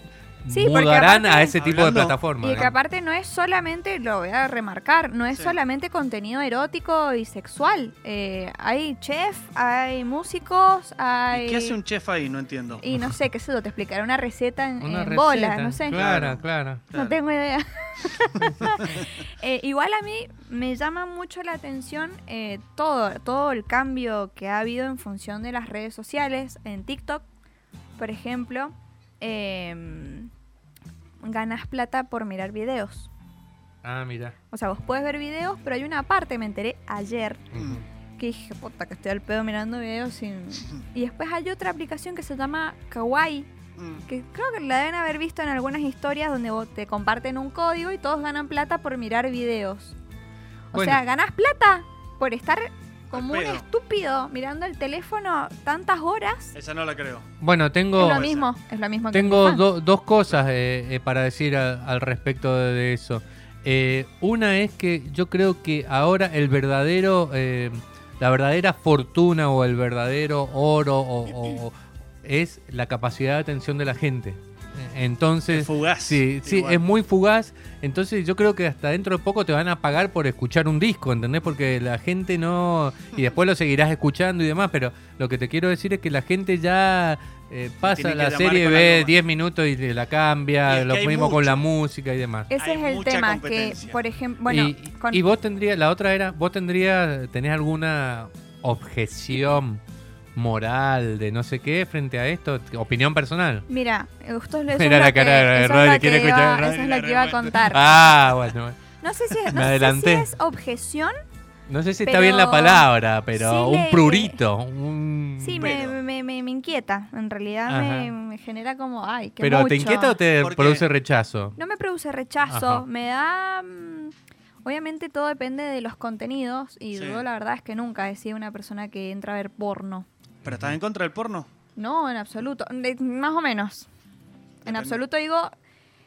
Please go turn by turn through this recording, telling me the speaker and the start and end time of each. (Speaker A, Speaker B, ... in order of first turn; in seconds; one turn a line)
Speaker A: 0.4-2.7
Speaker B: 0.5-1.5
Speaker C: 1.6-2.7
Speaker B: 2.4-11.8
Speaker C: 11.3-12.9
Speaker B: 12.8-16.0
Speaker A: 14.8-16.8
Speaker C: 15.9-17.2
Speaker B: 16.9-27.2
Speaker B: 28.0-30.3
Speaker B: 31.2-33.1
Speaker A: 33.8-34.4
Speaker B: 34.5-37.4
Speaker A: 37.5-37.8
Speaker C: 37.5-37.8
Speaker B: 38.2-43.5
Speaker C: 43.8-44.0
Speaker B: 44.1-50.0
Speaker B: 50.7-56.5
Speaker A: 50.7-51.0
Speaker C: 53.1-53.6
Speaker C: 56.5-57.2
Speaker A: 57.4-58.3
Speaker B: 57.9-59.6
Speaker C: 58.1-58.5
Speaker A: 59.1-92.5
Speaker C: 75.5-76.8
Speaker C: 87.8-89.1
Speaker C: 90.7-91.7
Speaker B: 92.5-95.2
Speaker C: 92.5-94.0
Speaker A: 94.5-99.8
Speaker A: 100.3-103.6
Speaker B: 103.7-107.9
Speaker A: 104.7-106.8
Speaker C: 106.6-107.7
Speaker A: 107.5-108.8
Speaker B: 109.0-111.1
Speaker A: 109.4-110.3
Speaker A: 111.7-115.7
Speaker B: 112.0-114.4
Speaker B: 115.4-120.2
Speaker C: 115.6-116.0
Speaker A: 117.7-118.1
Speaker A: 119.4-121.5
Speaker C: 120.4-120.8
Speaker B: 121.5-124.1
Speaker A: 122.5-122.8
Speaker B: 124.6-130.1
Speaker C: 126.9-127.2
Speaker C: 130.4-131.5
Speaker A: 130.4-130.8
Speaker B: 131.8-133.9
Speaker C: 134.6-135.0
Speaker B: 134.7-135.5